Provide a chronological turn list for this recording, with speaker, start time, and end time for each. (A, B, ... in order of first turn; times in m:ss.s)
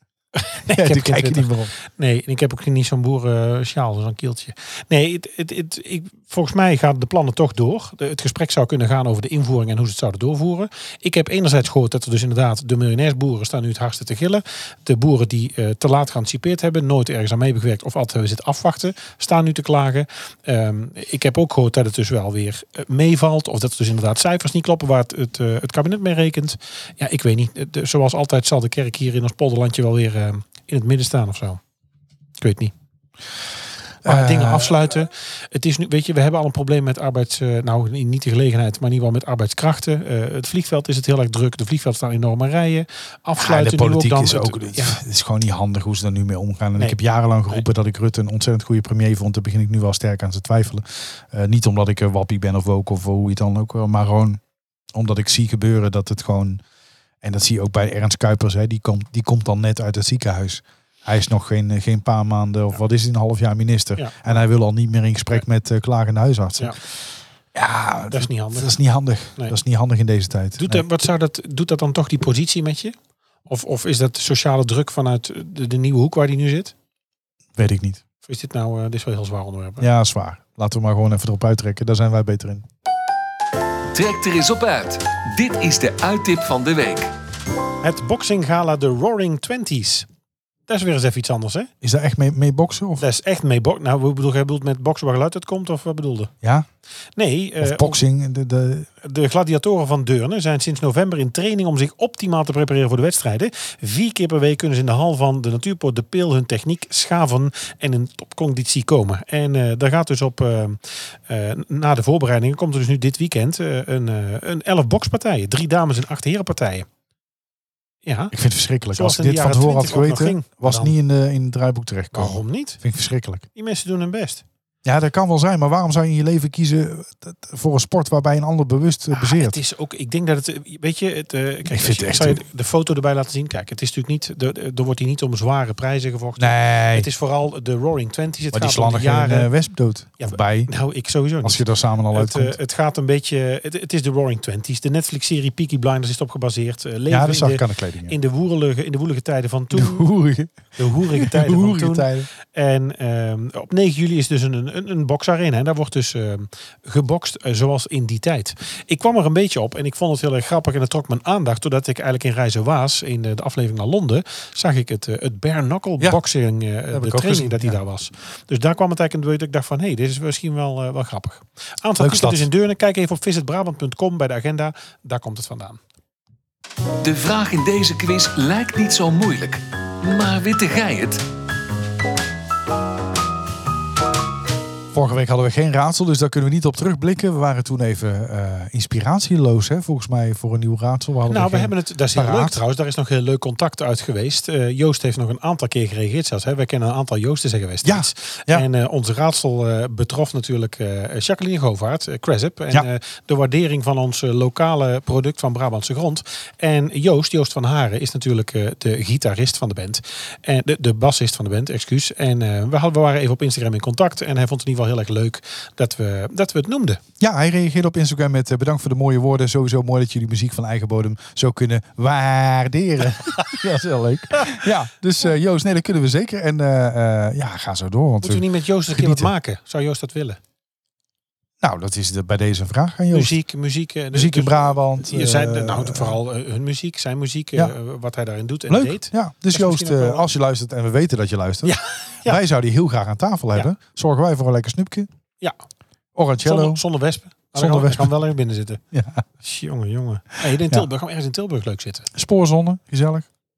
0:00.4-0:31.6 A
0:00.7-0:01.7 B
0:32.4-0:32.7 A
0:34.0-0:34.9 B
0:34.0-0:45.0 A
0:43.4-0:54.4 B
0:54.9-0:56.6 B
0:57.2-1:06.8 B
1:04.0-1:04.4 A
1:07.5-1:10.8 B
1:08.1-1:08.8 A
1:10.6-1:16.7 A
1:17.6-1:18.0 B
1:18.2-1:19.9 A
1:19.8-1:22.6 B
1:23.9-1:27.1 C
1:27.8-1:30.1 A
1:30.7-1:31.7 A
1:31.8-1:33.0 B
1:33.0-1:36.3 A
1:36.4-1:36.7 B
1:37.2-1:38.0 A
1:37.6-1:38.9 B
1:39.0-1:56.9 A
1:58.0-1:58.3 A
1:58.3-2:03.4 B
1:58.9-2:01.0 A
2:02.1-2:02.8 A
2:03.6-2:04.4 A
2:04.8-2:09.6 B
2:09.1-2:19.5 A
2:11.7-2:12.4 B
2:16.4-2:17.1 B
2:18.5-2:20.7 B
2:20.2-2:30.1 A
2:21.4-2:22.6 B
2:27.1-2:28.1 B
2:29.7-2:30.6 B
2:30.8-2:55.8 A
2:31.1-2:32.3 B
2:46.9-2:47.8 B
2:52.0-2:52.5 B
2:57.0-3:01.2 C
3:04.9-3:12.6 B
3:11.3-3:37.0 A
3:17.8-3:18.6 B
3:37.2-3:49.3 B
3:48.2-3:50.4 A
3:51.6-3:53.4 B
3:53.1-4:00.3 A
3:54.1-3:56.2 B
3:58.7-4:05.1 B
4:01.6-4:02.4 A
4:06.1-4:06.8 B
4:06.4-4:08.8 A
4:07.5-4:08.1 B
4:08.9-4:09.2 B
4:09.4-4:12.1 A
4:10.5-4:10.9 B
4:12.1-4:13.3 B